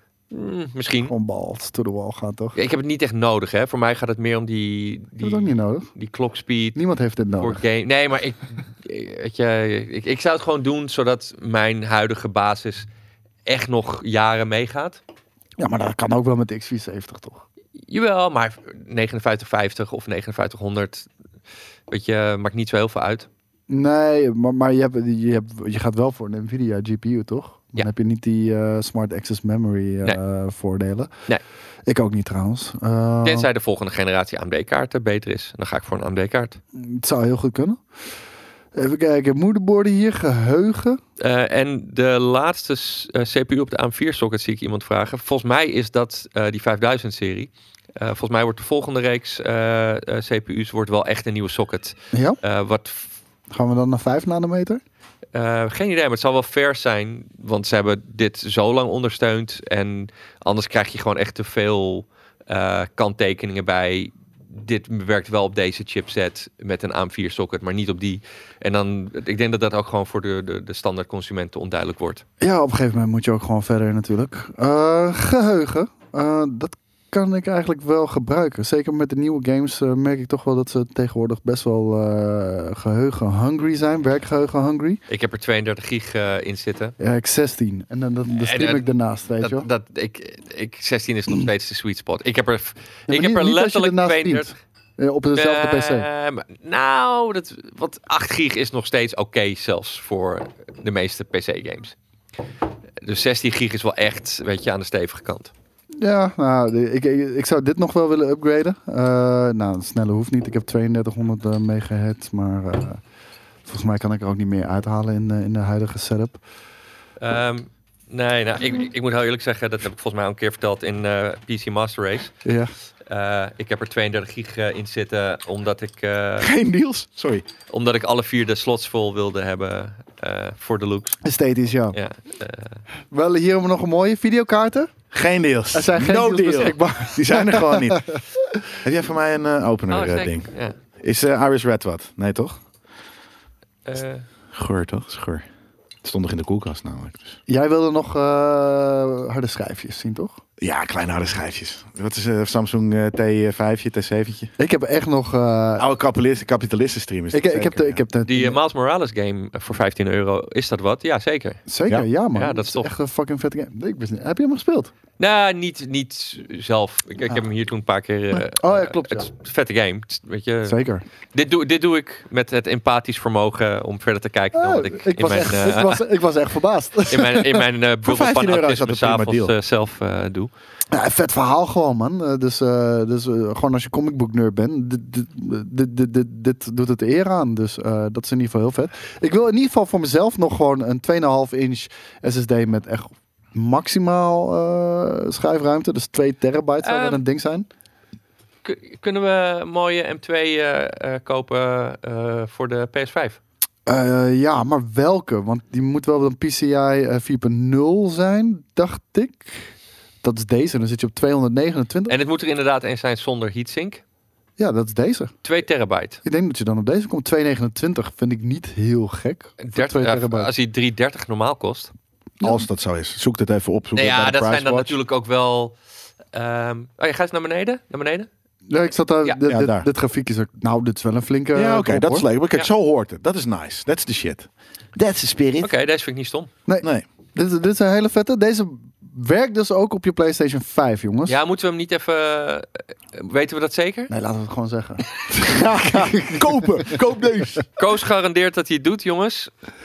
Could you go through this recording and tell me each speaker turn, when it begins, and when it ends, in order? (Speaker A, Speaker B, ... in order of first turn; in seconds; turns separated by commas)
Speaker A: 0.3-1.1, Speaker B: 1.1-2.6, Speaker A: 2.5-6.8, Speaker B: 5.2-5.9, Speaker B: 6.8-7.6, Speaker A: 7.4-12.9, Speaker A: 13.5-15.0, Speaker B: 15.6-17.4, Speaker A: 17.9-21.1, Speaker A: 21.9-23.3, Speaker B: 23.7-31.1, Speaker B: 31.9-33.5, Speaker A: 33.2-36.6, Speaker B: 36.8-37.8, Speaker B: 38.7-41.0, Speaker A: 41.2-53.1, Speaker B: 52.1-52.4, Speaker B: 53.5-54.8, Speaker A: 55.3-72.2, Speaker B: 72.4-85.0, Speaker A: 85.1-87.0, Speaker B: 87.0-89.7, Speaker A: 88.3-88.9, Speaker A: 89.4-94.5, Speaker B: 93.1-96.1, Speaker A: 95.4-102.0, Speaker A: 103.0-105.5, Speaker B: 106.0-113.0, Speaker B: 113.7-116.4, Speaker A: 117.2-122.4, Speaker B: 122.5-122.7, Speaker A: 123.1-126.5, Speaker C: 126.4-127.5, Speaker A: 127.7-131.2, Speaker B: 131.2-132.0, Speaker A: 131.9-132.8, Speaker B: 133.1-134.9, Speaker C: 135.1-138.1, Speaker B: 135.7-138.6, Speaker C: 138.8-142.6, Speaker A: 139.9-140.8, Speaker A: 143.9-144.2, Speaker C: 144.5-145.5, Speaker C: 146.0-147.4, Speaker B: 147.5-150.4, Speaker C: 150.6-154.5, Speaker B: 154.6-155.9, Speaker C: 155.8-158.0, Speaker B: 157.3-158.6, Speaker A: 158.2-161.6, Speaker B: 161.7-164.9, Speaker A: 162.3-162.9, Speaker A: 165.2-170.8, Speaker B: 168.3-169.3, Speaker B: 170.7-171.0, Speaker A: 171.3-176.1, Speaker B: 174.5-177.6, Speaker A: 177.1-180.5, Speaker C: 178.0-179.5, Speaker B: 180.9-197.7, Speaker A: 196.8-197.2, Speaker A: 198.6-203.4, Speaker B: 203.9-212.2, Speaker A: 212.1-214.0, Speaker B: 214.6-215.3, Speaker A: 215.4-216.2, Speaker B: 216.2-220.5, Speaker A: 219.6-221.9, Speaker C: 222.4-225.0, Speaker A: 223.9-225.8, Speaker A: 226.3-228.3, Speaker B: 228.7-232.3, Speaker C: 229.4-229.9, Speaker C: 231.6-235.7, Speaker A: 235.6-236.5, Speaker B: 236.7-241.4, Speaker A: 241.3-244.1, Speaker B: 244.1-247.0, Speaker C: 245.6-247.6, Speaker A: 247.8-249.5